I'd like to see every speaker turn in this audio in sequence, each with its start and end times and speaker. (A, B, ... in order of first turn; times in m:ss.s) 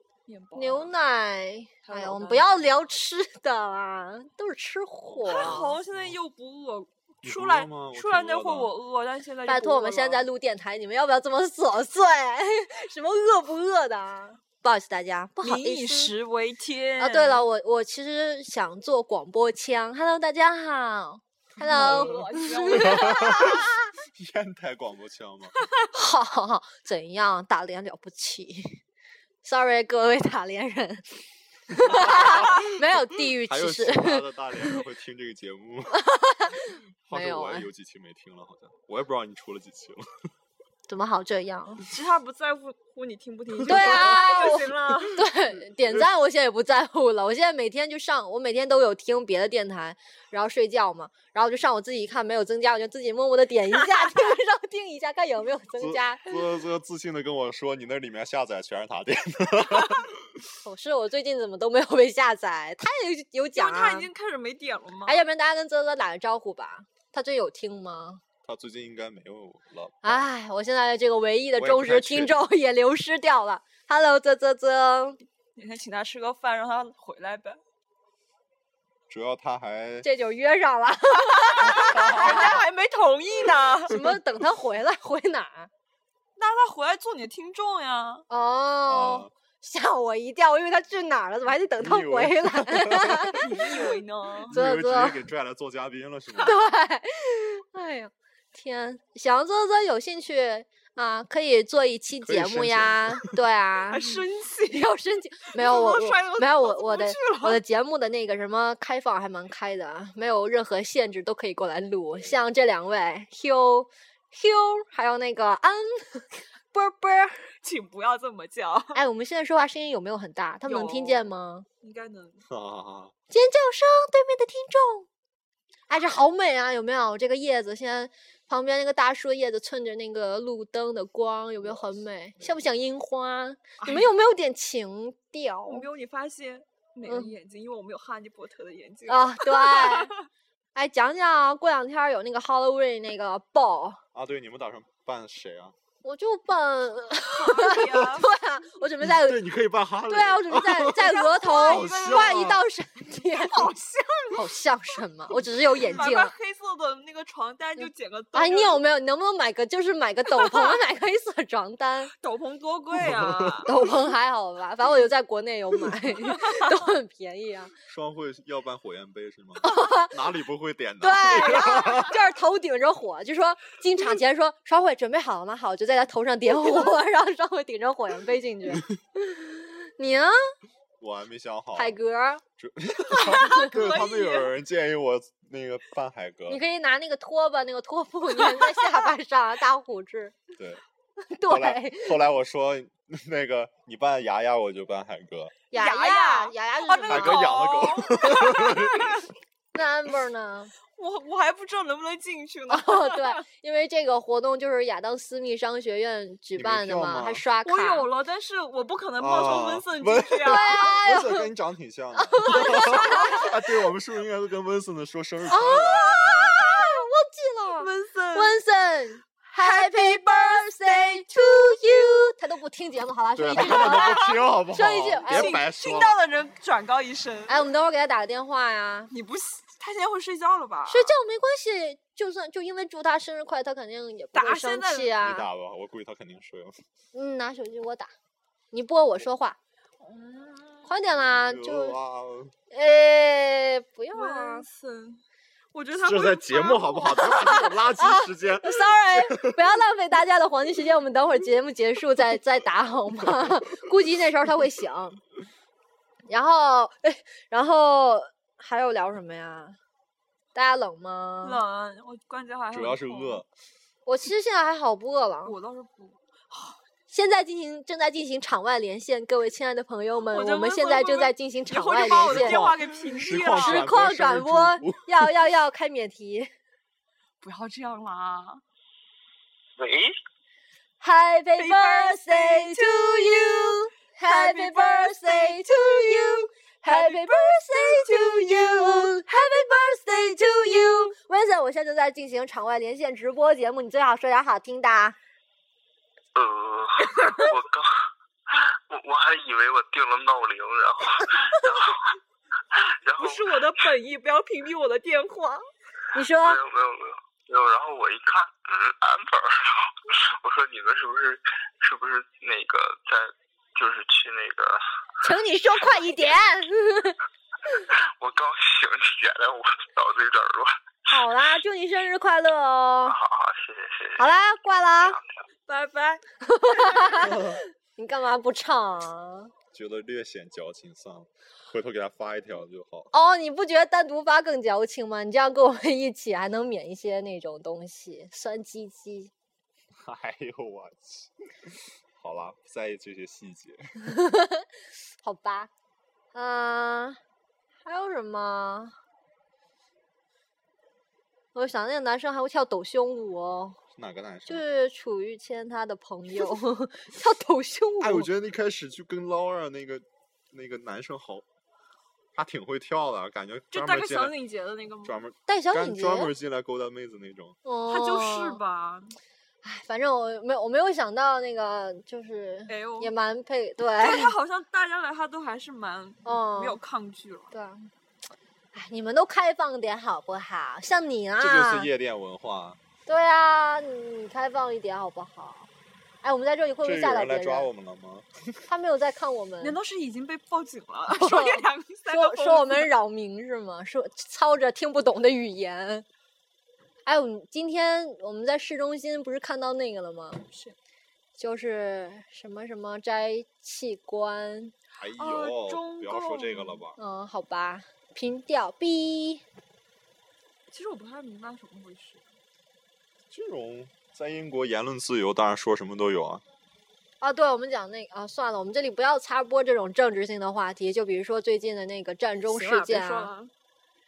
0:00.3-0:00.9 A
0:00.6-0:05.8 B
0:01.8-0:02.7 A
0:05.2-0:10.3 A
0:05.3-0:06.1 C
0:07.2-0:08.7 C
0:09.4-0:16.1 B
0:15.4-0:17.4 A
0:17.0-0:23.9 B
0:21.6-0:23.3 A
0:21.6-0:25.5 C
0:25.9-0:28.8 B
0:29.4-0:34.8 B
0:32.0-0:32.6 C
0:33.5-0:36.0 C
0:35.9-0:37.7 B
0:37.1-0:40.0 C
0:40.9-0:41.8 B
0:41.9-0:45.3 A
0:43.7-0:56.4 B
0:43.7-0:44.1 C
0:55.8-1:00.2 C
1:00.6-1:04.1 B
1:03.6-1:05.2 A
1:05.1-1:08.2 B
1:08.4-1:10.3 C
1:10.0-1:15.2 B
1:11.6-1:12.3 C
1:15.6-1:17.6 A
1:19.1-1:20.1 C
1:20.0-1:22.5 B
1:21.4-1:23.9 A
1:22.0-1:22.4 C
1:23.9-1:25.7 B
1:26.4-1:28.2 A
1:28.3-1:33.9 B
1:28.9-1:29.3 C
1:31.8-1:33.4 C
1:33.4-1:34.5 A
1:34.5-1:36.6 C
1:34.5-1:35.2 B
1:36.4-1:44.2 B
1:42.2-1:43.3 C
1:43.9-1:44.9 A
1:44.7-1:57.5 B
1:45.5-1:47.6 A
1:57.6-1:59.0 A
1:58.9-2:01.7 B
2:00.6-2:01.3 A
2:01.8-2:02.4 A
2:02.5-2:03.1 C
2:03.3-2:05.1 B
2:05.9-2:15.9 B
2:13.8-2:14.1 A
2:15.7-2:20.2 A
2:17.1-2:17.3 B
2:19.1-2:20.1 B
2:20.8-2:24.0 B
2:24.1-2:25.7 C
2:26.0-2:29.4 B
2:27.3-2:28.3 A
2:29.0-2:32.6 C
2:30.1-2:33.7 B
2:30.9-2:32.4 A
2:33.3-2:34.4 A
2:34.3-2:36.3 B
2:35.5-2:38.8 A
2:37.8-2:42.1 B
2:40.4-2:40.8 A
2:42.2-2:43.7 A
2:43.0-2:43.7 C
2:43.7-2:47.7 B
2:47.9-2:52.1 C
2:49.6-2:50.2 B
2:51.0-3:00.3 B
3:01.0-3:02.0 C
3:01.8-3:02.4 B
3:02.6-3:06.6 C
3:03.2-3:04.6 A
3:06.5-3:10.4 B
3:08.5-3:09.1 A
3:10.6-3:10.8 C
3:11.3-3:12.2 B
3:11.5-3:15.6 C
3:15.7-3:17.6 B
3:15.7-3:19.2 A
3:17.1-3:19.2 C
3:19.7-3:20.7 B
3:21.0-3:23.4 A
3:22.7-3:28.1 B
3:26.6-3:27.4 C
3:27.6-3:30.9 A
3:29.2-3:36.1 C
3:30.5-3:31.5 B
3:32.2-3:33.5 B
3:35.5-3:45.6 B
3:37.8-3:38.6 A
3:39.6-3:41.3 A
3:43.4-3:46.2 C
3:43.5-3:44.4 A
3:45.3-3:47.6 A
3:47.5-3:49.1 B
3:49.1-3:51.2 A
3:50.9-3:55.5 B
3:54.3-3:55.1 A
3:55.2-3:56.8 C
3:57.1-3:58.1 B
3:58.7-3:59.6 B
4:00.0-4:00.9 A
4:00.8-4:02.0 B
4:01.2-4:02.5 C
4:02.7-4:04.7 B
4:04.1-4:05.2 A
4:05.7-4:07.6 A
4:05.9-4:09.6 C
4:07.1-4:15.2 B
4:16.3-4:19.8 B
4:20.6-4:21.6 B
4:21.4-4:23.4 A
4:22.7-4:23.5 C
4:24.1-4:25.6 B
4:25.4-4:26.8 A
4:27.1-4:32.6 B
4:30.3-4:33.9 A
4:32.1-4:35.1 C
4:33.4-4:36.5 B
4:37.4-4:38.6 A
4:39.8-4:40.2 D
4:41.0-4:55.2 B
4:41.6-4:49.1 A
4:56.4-4:57.9 D
4:57.1-4:57.6 A
4:58.6-5:02.0 D
5:01.3-5:01.9 A
5:03.0-5:03.5 D
5:03.2-5:05.6 A
5:06.1-5:06.6 B
5:06.4-5:14.8 D
5:15.2-5:17.2 B
5:18.0-5:21.2 D
5:21.1-5:23.2 B
5:23.1-5:24.2 D
5:24.2-5:25.2 B
5:25.7-5:26.2 A
5:26.4-5:29.5 B
5:26.8-5:27.1 A
5:27.3-5:27.6 C
5:29.7-5:33.1 C
5:33.1-5:39.3 B
5:40.0-5:41.3 C
5:42.2-5:43.8 C
5:44.2-5:44.6 B
5:45.2-5:45.7 B
5:46.3-5:47.2 B
5:47.8-5:48.9 B
5:51.5-5:53.8 B
5:54.0-5:54.6 C
5:54.5-5:58.3 B
5:58.0-6:01.4 C
6:02.4-6:04.3 C
6:03.7-6:05.2 A
6:05.0-6:07.6 C
6:05.5-6:06.3 B
6:07.6-6:08.6 B
6:07.9-6:09.2 A
6:09.6-6:14.3 B
6:12.7-6:13.1 A
6:14.0-6:17.5 A
6:16.2-6:16.8 B
6:17.5-6:17.9 B
6:18.7-6:21.9 B
6:21.4-6:22.8 C
6:23.1-6:25.7 B
6:26.2-6:27.7 B
6:26.8-6:28.6 C
6:28.7-6:29.8 B
6:29.6-6:32.9 A
6:31.1-6:36.1 B
6:37.1-6:40.4 B
6:40.5-6:40.8 A
6:41.4-6:44.7 B
6:45.0-6:47.0 C
6:45.2-6:46.8 A
6:47.0-6:49.4 B
6:50.7-6:52.2 A
6:53.3-6:56.4 C
6:57.2-7:03.3 B
7:02.4-7:03.5 A